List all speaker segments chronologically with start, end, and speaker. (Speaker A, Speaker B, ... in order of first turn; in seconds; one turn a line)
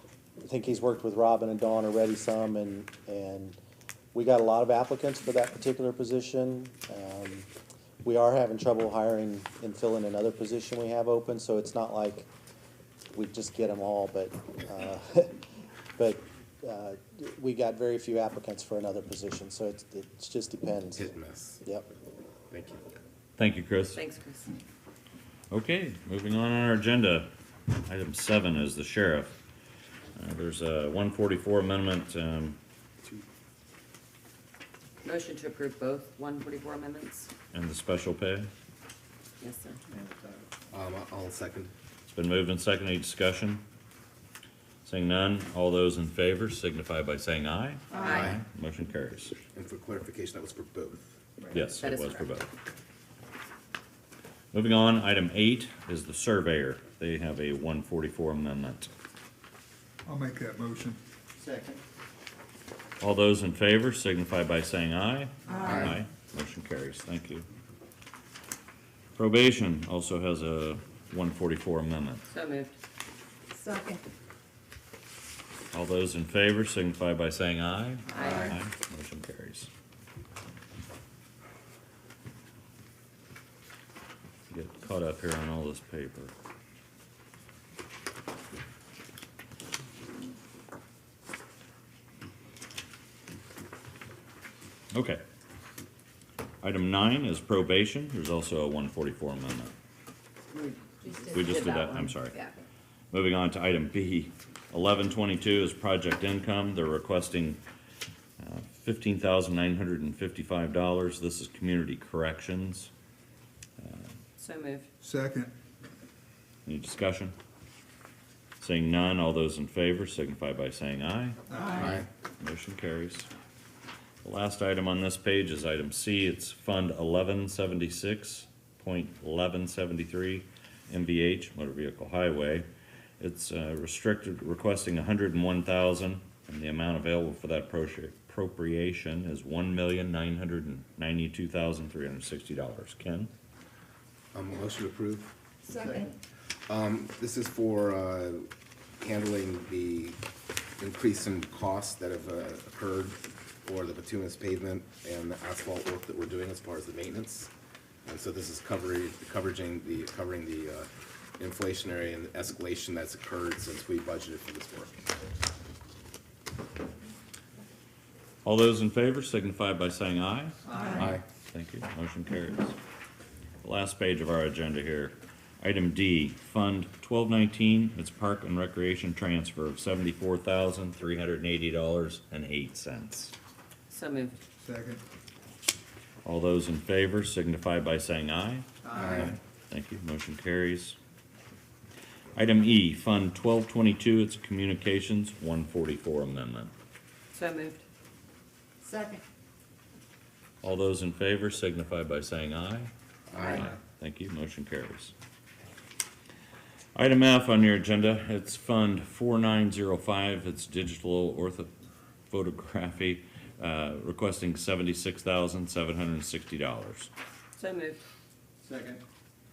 Speaker A: 0.4-3.6
Speaker A: 4.1-7.5
Speaker A: 8.0-12.3
Speaker A: 13.1-15.4
Speaker A: 16.0-21.1
Speaker B: 20.9-21.6
Speaker B: 22.5-22.8
Speaker C: 23.4-24.0
Speaker D: 24.0-24.4
Speaker C: 25.5-29.3
Speaker C: 30.1-32.6
Speaker D: 35.0-37.3
Speaker C: 37.5-38.5
Speaker D: 39.4-39.8
Speaker B: 40.7-41.7
Speaker C: 42.1-43.6
Speaker C: 44.8-49.4
Speaker B: 48.0-48.4
Speaker B: 49.5-51.0
Speaker C: 51.5-52.5
Speaker D: 51.8-52.2
Speaker C: 54.5-58.9
Speaker E: 60.0-61.0
Speaker C: 63.0-67.5
Speaker F: 65.5-65.8
Speaker B: 65.6-66.0
Speaker C: 69.2-72.3
Speaker D: 72.3-72.7
Speaker F: 73.5-74.0
Speaker C: 75.7-79.7
Speaker F: 78.2-78.5
Speaker C: 84.5-86.3
Speaker C: 94.9-95.2
Speaker C: 96.6-99.7
Speaker D: 100.5-102.5
Speaker F: 101.0-101.5
Speaker C: 101.3-102.4
Speaker C: 103.1-107.6
Speaker C: 108.4-112.9
Speaker C: 113.8-114.2
Speaker D: 114.4-114.8
Speaker E: 115.0-115.5
Speaker C: 116.6-117.3
Speaker C: 118.6-121.4
Speaker E: 121.5-121.9
Speaker B: 121.8-122.1
Speaker C: 122.4-123.3
Speaker C: 124.2-132.7
Speaker C: 133.2-143.3
Speaker B: 144.3-145.3
Speaker F: 145.7-146.1
Speaker B: 146.7-148.5
Speaker B: 149.0-150.2
Speaker B: 150.8-157.5
Speaker B: 158.0-165.0
Speaker C: 168.4-172.8
Speaker B: 170.8-171.2
Speaker C: 173.6-183.3
Speaker D: 183.9-184.4
Speaker E: 184.6-185.0
Speaker C: 186.2-191.0
Speaker B: 188.9-189.3
Speaker C: 192.3-196.7
Speaker D: 197.3-197.8
Speaker F: 198.8-199.2
Speaker C: 200.6-205.1
Speaker B: 203.3-203.7
Speaker C: 206.9-211.7
Speaker C: 212.3-217.1
Speaker D: 217.6-218.0